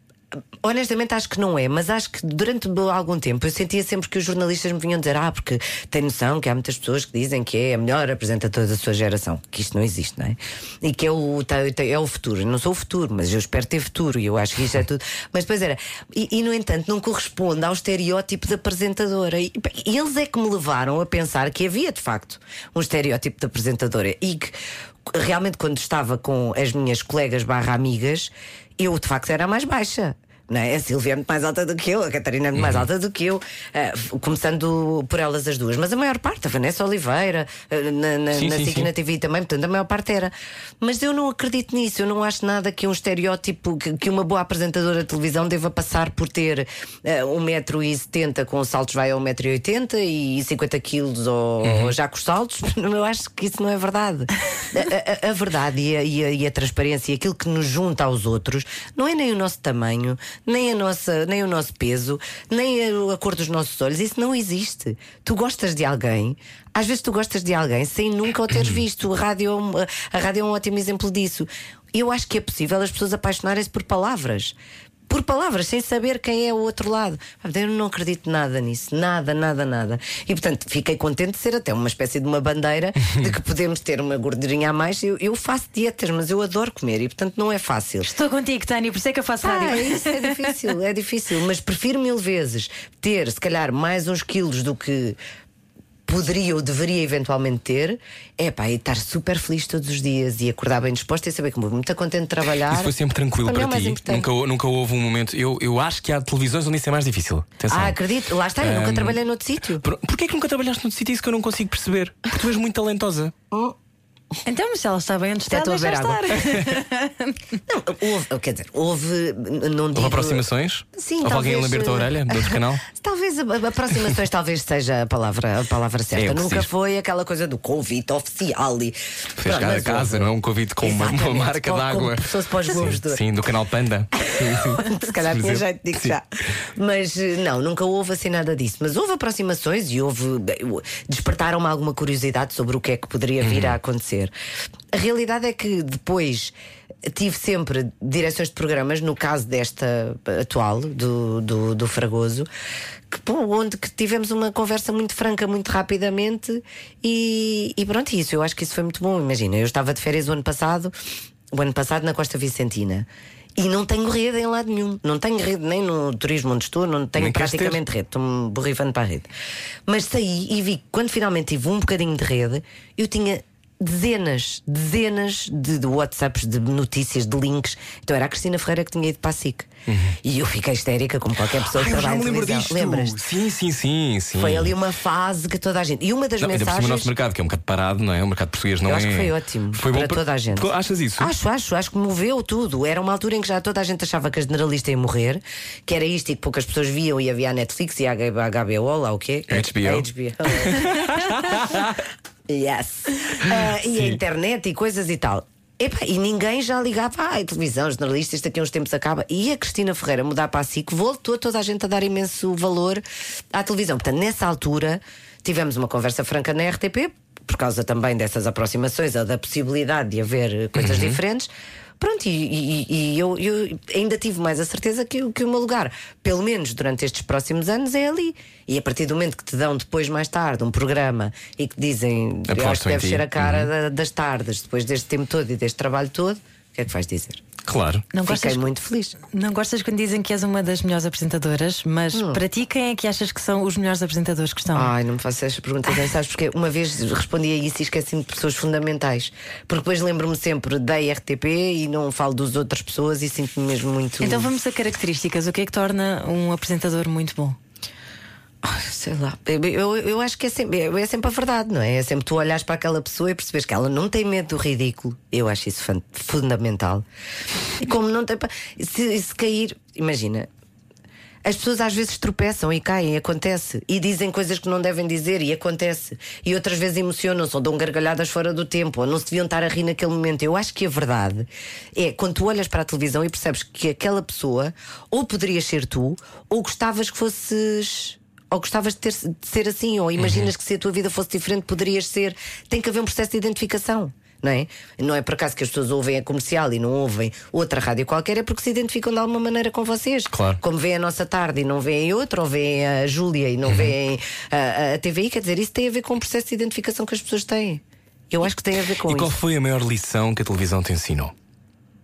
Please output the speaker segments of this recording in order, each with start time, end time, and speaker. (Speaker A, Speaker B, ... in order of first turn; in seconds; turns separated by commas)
Speaker A: 0.6-74.5, Speaker B: 32.5-32.8, Speaker B: 38.3-38.9, Speaker B: 51.6-51.9, Speaker A: 75.1-88.1, Speaker C: 88.0-90.4, Speaker A: 89.4-95.2, Speaker A: 96.1-104.3, Speaker B: 102.6-108.0, Speaker A: 107.7-109.8, Speaker B: 108.6-109.2, Speaker B: 109.8-113.3, Speaker C: 114.5-117.4, Speaker A: 115.5-116.4, Speaker A: 117.7-120.4, Speaker B: 119.9-122.8, Speaker A: 120.9-130.3, Speaker B: 126.1-126.7, Speaker B: 129.4-136.2, Speaker A: 130.8-133.2, Speaker A: 134.2-144.3, Speaker B: 143.4-143.8, Speaker A: 144.9-146.5, Speaker A: 147.1-152.5, Speaker A: 153.1-160.9, Speaker A: 161.5-169.3, Speaker B: 167.2-167.8, Speaker A: 169.8-179.7, Speaker B: 179.9-180.2, Speaker A: 180.2-183.2, Speaker B: 181.4-184.8, Speaker A: 184.4-187.1, Speaker B: 186.4-191.3, Speaker A: 188.8-201.8, Speaker B: 199.5-201.9, Speaker A: 202.5-237.4, Speaker B: 203.5-204.2, Speaker B: 220.7-221.2, Speaker B: 232.5-233.7, Speaker B: 237.7-238.1, Speaker C: 238.1-238.7, Speaker A: 238.2-239.2, Speaker C: 239.2-244.9, Speaker A: 242.1-242.4, Speaker A: 244.7-254.5, Speaker C: 254.2-257.6, Speaker A: 258.6-267.0, Speaker A: 267.8-270.5, Speaker A: 271.4-309.3, Speaker B: 290.2-290.5, Speaker B: 300.3-300.6, Speaker B: 303.6-303.9, Speaker B: 309.0-311.3